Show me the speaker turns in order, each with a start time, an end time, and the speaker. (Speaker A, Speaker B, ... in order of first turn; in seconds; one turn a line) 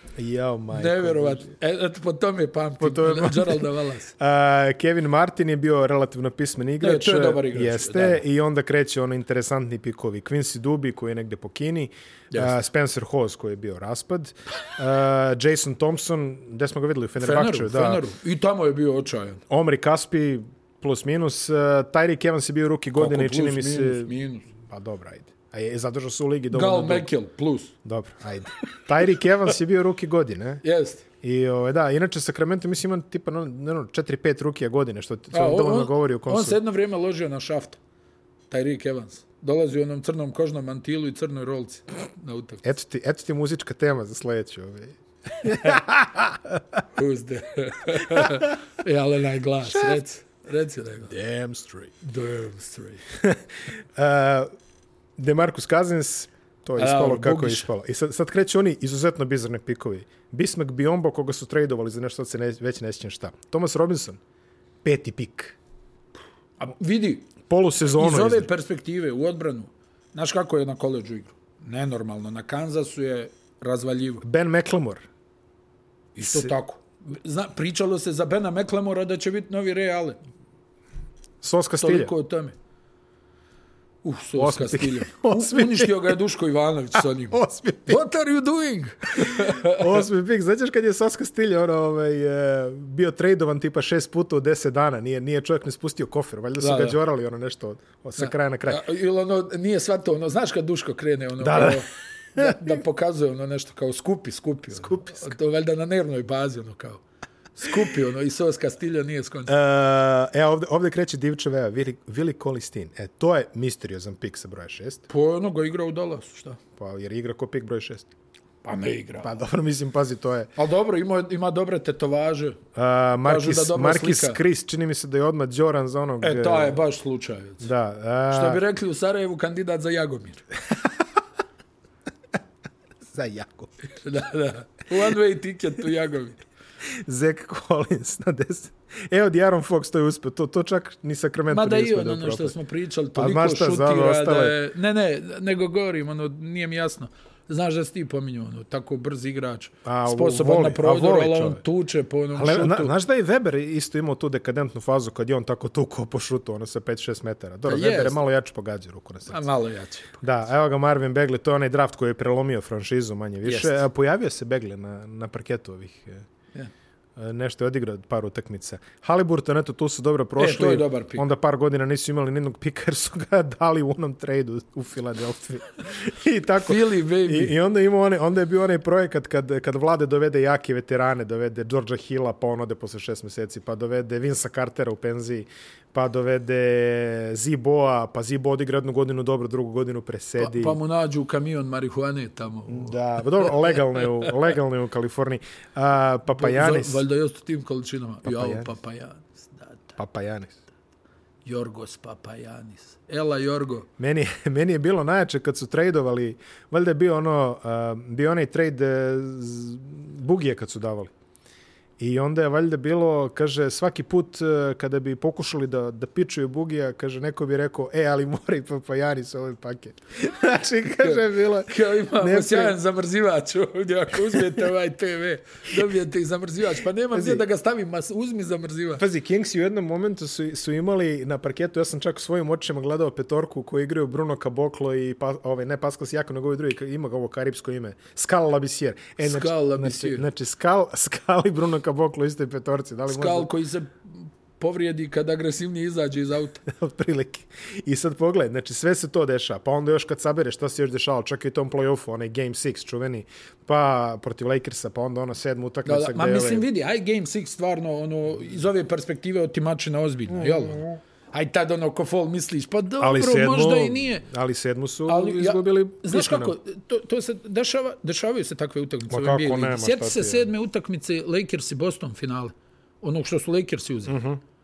Speaker A: 0.2-1.5
Speaker B: 0.7-4.1
Speaker A: 2.8-3.7
Speaker A: 4.2-18.0
Speaker B: 6.8-8.2
Speaker B: 17.2-19.4
Speaker A: 19.5-27.1
Speaker B: 22.9-24.5
Speaker B: 26.5-27.7
Speaker A: 27.8-30.6
Speaker B: 30.6-31.0
Speaker A: 31.2-36.6
Speaker B: 35.3-37.8
Speaker B: 38.5-42.6
Speaker A: 42.6-46.6
Speaker B: 46.9-51.1
Speaker A: 48.1-48.4
Speaker A: 51.1-51.9
Speaker B: 52.0-53.0
Speaker A: 53.9-54.5
Speaker A: 55.2-64.2
Speaker B: 56.8-57.7
Speaker A: 64.8-65.6
Speaker B: 66.6-67.3
Speaker A: 67.4-68.5
Speaker B: 67.9-74.2
Speaker A: 74.2-75.0
Speaker B: 76.1-80.2
Speaker A: 76.2-76.5
Speaker A: 81.4-82.1
Speaker B: 81.8-82.5
Speaker B: 84.0-90.0
Speaker A: 84.3-86.1
Speaker A: 87.0-88.0
Speaker A: 89.2-98.8
Speaker B: 96.6-97.0
Speaker B: 98.2-107.0
Speaker A: 101.4-101.8
Speaker A: 102.3-102.7
Speaker A: 104.7-105.3
Speaker B: 107.5-109.5
Speaker A: 109.5-115.0
Speaker B: 115.1-116.6
Speaker A: 116.8-118.1
Speaker B: 118.6-119.3
Speaker A: 119.2-120.5
Speaker B: 120.5-122.6
Speaker A: 122.7-126.8
Speaker B: 123.2-124.4
Speaker B: 126.2-127.7
Speaker A: 127.6-128.6
Speaker B: 128.3-130.4
Speaker A: 133.1-133.7
Speaker B: 133.9-136.4
Speaker A: 136.9-142.5
Speaker B: 141.5-152.9
Speaker A: 143.1-144.6
Speaker A: 149.8-151.6
Speaker A: 152.3-159.4
Speaker B: 157.7-158.2
Speaker B: 159.3-160.2
Speaker A: 160.2-166.2
Speaker B: 163.4-163.8
Speaker A: 167.2-190.8
Speaker B: 170.4-171.2
Speaker B: 176.6-177.5
Speaker B: 190.4-194.3
Speaker A: 192.7-197.0
Speaker B: 196.3-200.0
Speaker A: 198.2-198.7
Speaker A: 200.0-200.6
Speaker B: 201.4-203.9
Speaker A: 204.0-211.1
Speaker A: 212.0-222.7
Speaker B: 221.0-229.0
Speaker A: 227.1-227.4
Speaker A: 229.0-243.5
Speaker B: 239.2-240.3
Speaker B: 243.1-246.6
Speaker A: 246.7-256.6
Speaker B: 255.8-264.2
Speaker A: 260.4-260.8
Speaker A: 263.0-266.5
Speaker B: 265.1-274.2
Speaker A: 269.1-270.5
Speaker A: 274.1-274.4